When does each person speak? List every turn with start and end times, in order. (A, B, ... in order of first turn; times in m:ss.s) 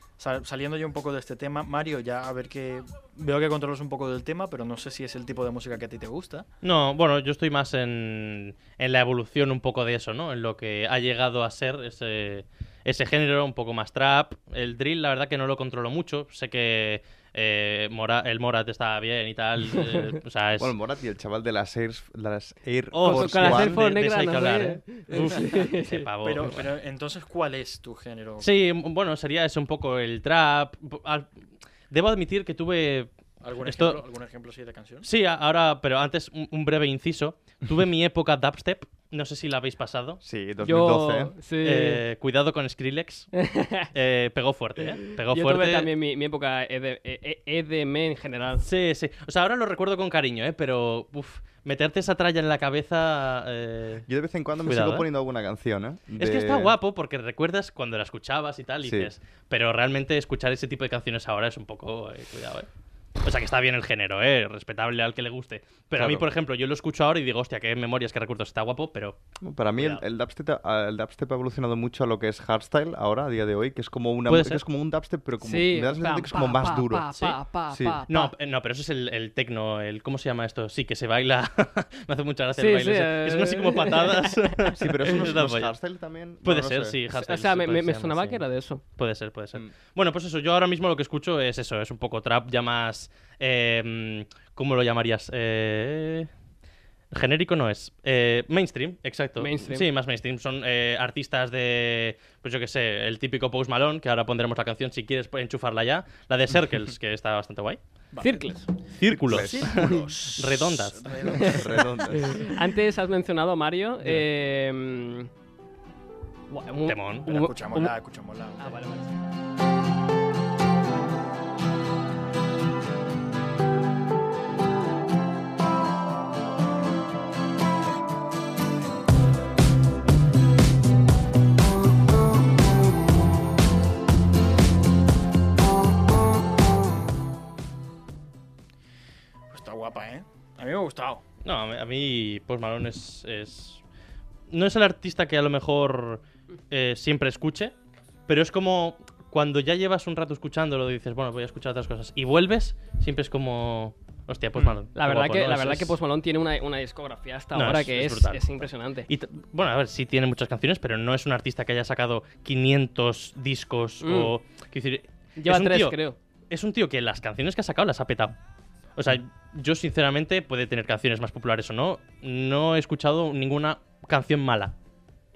0:00.2-0:06.5 A
0:06.6-0:20.8 B
0:20.6-0:23.8 C
0:22.9-0:26.7 B
0:23.0-0:26.1 D
0:26.2-0:28.5 A
0:28.4-0:31.3 B
0:31.9-0:34.0 B
0:33.4-0:35.1 A
0:35.0-0:40.2 B
0:40.2-0:41.4 C
0:40.6-0:42.0 D
0:41.6-0:43.4 B
0:43.4-0:43.9 D
0:43.9-0:45.9 B
0:45.1-0:48.6 D
0:48.6-0:54.1 B
0:54.1-0:56.7 C
0:54.7-0:55.1 B
0:56.2-1:02.7 B
0:58.8-0:59.1 C
1:03.2-1:09.2 B
1:06.0-1:06.3 C
1:09.4-1:18.0 C
1:14.3-1:14.6 B
1:15.4-1:18.3 D
1:18.1-1:25.7 B
1:22.6-1:24.7 D
1:24.7-1:27.0 C
1:26.4-1:28.4 B
1:27.1-1:28.8 D
1:29.0-1:36.3 B
1:37.1-1:47.8 B
1:39.4-1:39.9 D
1:48.1-1:48.6 A
1:48.2-1:48.7 D
1:49.0-1:51.2 B
1:49.3-1:49.9 C
1:49.3-1:51.9 A
1:51.3-1:52.5 C
1:52.2-1:55.3 D
1:56.5-1:57.9 D
1:56.9-1:57.3 B
1:57.3-1:58.8 A
1:58.6-1:59.1 D
2:19.5-2:21.2 A
2:21.4-2:23.8 B
2:24.5-2:27.7 B
2:28.3-2:35.9 B
2:35.0-2:39.1 D
2:37.6-2:38.4 B
2:39.1-2:46.0 B
2:44.0-2:44.3 D
2:45.4-2:46.2 D
2:46.5-2:48.4 B
2:49.0-2:54.7 B